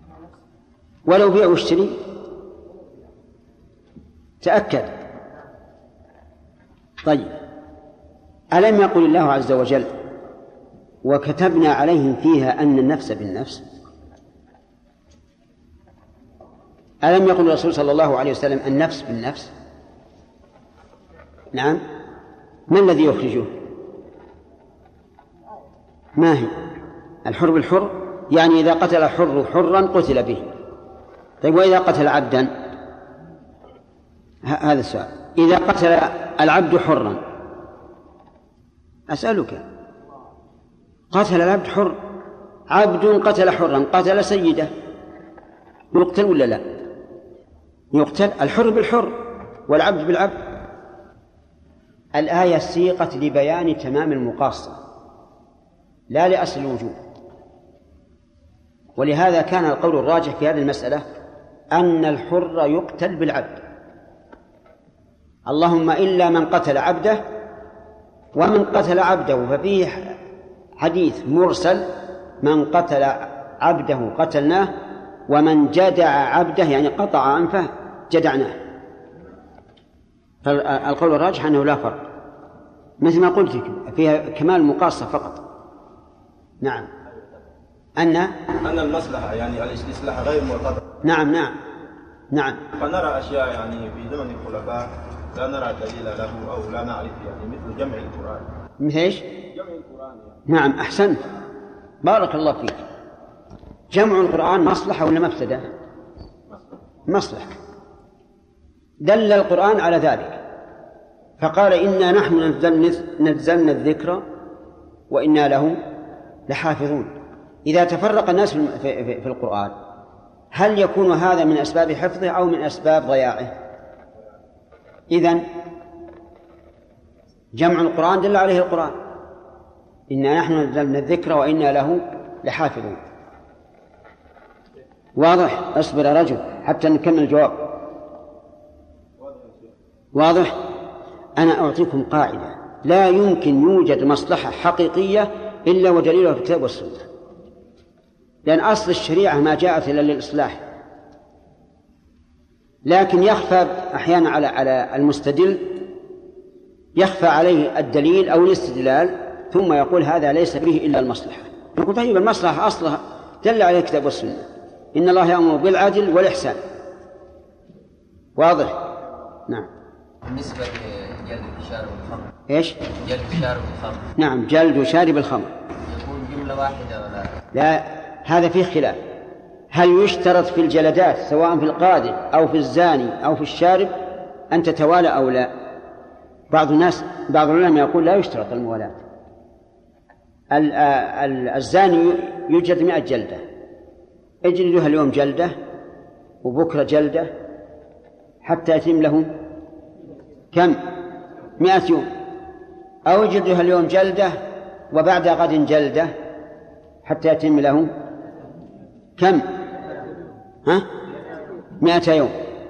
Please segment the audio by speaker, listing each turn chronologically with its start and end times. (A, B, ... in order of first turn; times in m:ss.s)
0:01.1-0:02.0 A
0:04.4-0:04.9 A
0:07.0-0:07.4 A
0:08.5-0:09.9 A
0:11.0-0:13.6 A
0:17.0-0:19.5 A
0:21.5-0:21.8 A
0:22.7-0:23.6 A
0:26.2-0:26.5 A
0:27.2-0:30.5 A
0:31.4-0:32.5 A
0:34.4-0:37.2 A
0:39.1-0:39.6 A
0:41.1-0:42.0 A
0:42.7-0:44.7 A
0:45.9-0:46.6 A
0:47.9-0:50.6 A
0:52.2-0:54.8 A
0:56.1-0:57.0 A
0:59.0-1:01.0 A
1:01.7-1:03.6 A
1:05.5-1:07.2 A
1:08.4-1:10.2 A
1:10.8-1:11.9 A
1:12.4-1:14.7 A
1:15.3-1:18.6 A
1:20.4-1:22.0 A
1:23.0-1:25.4 A
1:26.6-1:26.9 A
1:28.0-1:28.4 A
1:28.6-1:30.8 B
1:31.0-1:31.5 A
1:32.3-1:32.6 A
1:32.8-1:38.5 B
1:38.8-1:39.2 A
1:39.5-1:40.4 B
1:40.5-1:41.2 A
1:42.0-1:42.8 A
1:43.9-1:45.7 A
1:47.1-1:47.6 A
1:49.0-1:50.4 A
1:51.4-1:54.2 A
1:55.1-1:55.8 A
1:56.5-1:57.1 A
1:57.6-1:59.7 A
2:00.5-2:03.5 A
2:05.1-2:05.4 A
2:07.6-2:09.0 A
2:10.1-2:13.0 A
2:15.2-2:17.8 A
2:19.2-2:19.7 B
2:20.1-2:20.6 A
2:21.4-2:27.1 A
2:28.4-2:30.6 A
2:32.8-2:35.8 A
2:37.0-2:46.6 A
2:48.4-2:48.8 A
2:50.3-2:52.3 C
2:52.5-2:52.8 A
2:53.0-2:54.1 C
2:54.2-2:55.5 A
2:55.9-2:57.3 C
2:57.5-2:59.0 A
2:59.7-3:05.5 A
3:06.5-3:09.0 A
3:10.5-3:13.4 A
3:14.4-3:15.6 A
3:16.4-3:17.3 A
3:18.4-3:19.4 A
3:20.5-3:20.8 A
3:21.6-3:22.1 A
3:23.1-3:24.4 A
3:24.9-3:26.1 A
3:27.0-3:27.9 A
3:29.2-3:29.4 A
3:31.8-3:32.4 A